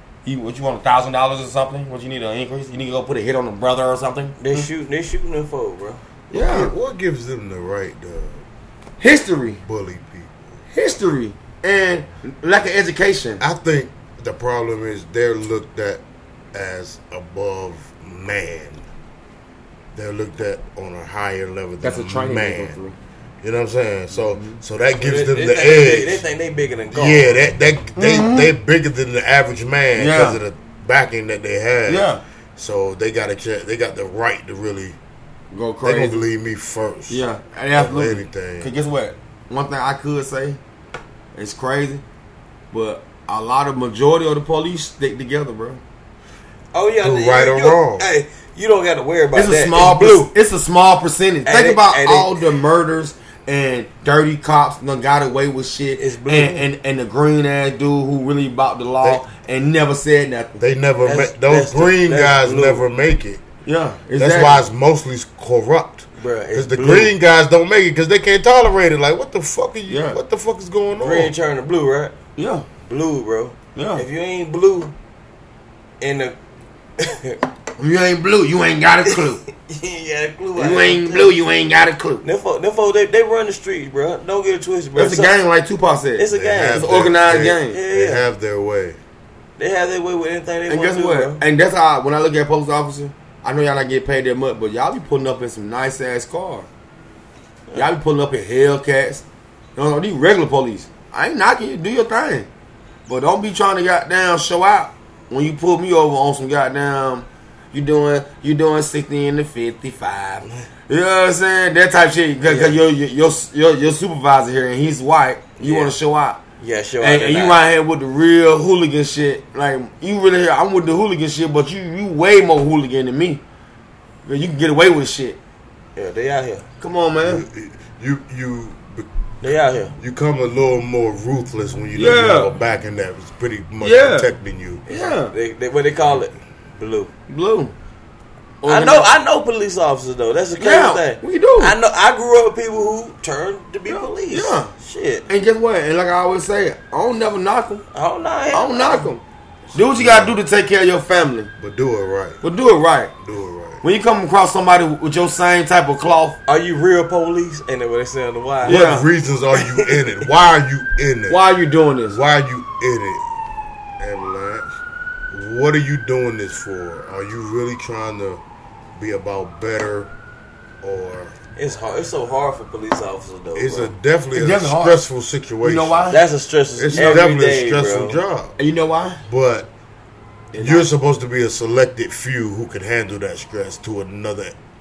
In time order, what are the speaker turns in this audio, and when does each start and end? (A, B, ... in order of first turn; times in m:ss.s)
0:00.2-0:04.4 A
0:04.4-0:06.0 B
0:06.3-0:06.7 A
0:06.3-0:08.4 C
0:09.0-0:09.6 A
0:09.6-0:10.5 C
0:10.7-0:13.4 A
0:13.4-0:16.0 C
0:16.5-0:18.8 C
0:19.9-0:22.8 C
0:21.8-0:23.0 A
0:23.4-0:26.2 C
0:24.2-0:24.6 A
0:25.0-0:27.4 B
0:26.9-0:35.0 C
0:28.0-0:28.5 A
0:30.0-0:30.4 A
0:31.9-0:32.2 A
0:35.5-0:36.3 A
0:35.8-0:38.7 C
0:37.1-0:40.6 A
0:41.4-0:42.0 A
0:42.7-0:45.8 A
0:46.7-0:50.3 B
0:47.0-0:48.1 C
0:49.4-1:00.6 A
0:51.5-0:52.5 B
0:56.0-0:56.7 B
1:00.6-1:03.4 C
1:01.0-1:02.8 B
1:03.6-1:04.6 A
1:04.2-1:11.3 C
1:06.2-1:07.1 B
1:09.9-1:10.2 A
1:11.0-1:12.2 B
1:12.4-1:12.7 A
1:12.8-1:14.9 B
1:13.8-1:14.0 A
1:16.0-1:16.4 B
1:17.0-1:17.4 B
1:17.8-1:19.4 A
1:19.1-1:21.4 B
1:20.6-1:22.2 A
1:22.2-1:25.4 B
1:25.0-1:27.8 A
1:26.2-1:26.9 B
1:26.3-1:29.0 C
1:27.7-1:28.2 B
1:29.6-1:31.4 B
1:30.7-1:36.7 A
1:37.7-1:39.2 A
1:39.8-1:42.5 A
1:43.1-1:56.4 A
1:52.4-1:52.8 B
1:55.6-1:55.9 B
1:56.6-1:57.6 B
1:57.0-2:03.4 A
2:04.3-2:05.4 A
2:06.0-2:06.6 B
2:06.8-2:07.4 A
2:07.2-2:09.1 C
2:09.4-2:09.9 B
2:10.0-2:14.8 C
2:12.0-2:12.5 A
2:13.8-2:14.3 A
2:14.9-2:17.1 B
2:14.9-2:15.3 A
2:17.3-2:17.7 A
2:18.6-2:19.1 A
2:18.7-2:25.3 B
2:20.6-2:21.8 A
2:23.9-2:24.7 A
2:25.3-2:27.8 A
2:27.9-2:29.1 B
2:28.5-2:29.2 A
2:29.7-2:30.4 C
2:29.8-2:31.5 A
2:31.6-2:32.4 C
2:32.4-2:33.1 A
2:33.2-2:33.8 C
2:33.8-2:36.4 A
2:36.5-2:38.8 B
2:38.6-2:41.4 C
2:38.6-2:39.1 A
2:39.5-2:40.1 B
2:41.3-2:42.2 A
2:42.1-2:43.2 C
2:44.0-2:44.8 C
2:45.3-2:48.4 C
2:49.0-2:50.1 C
2:50.8-2:51.3 C
2:51.6-2:53.9 B
2:53.6-2:56.2 C
2:54.3-2:55.0 A
2:55.6-2:56.2 A
2:56.1-2:58.2 B
2:56.8-2:58.6 C
2:56.9-2:57.3 A
2:58.6-2:59.2 A
2:59.3-2:59.7 C
3:00.5-3:00.9 A
3:00.6-3:04.6 C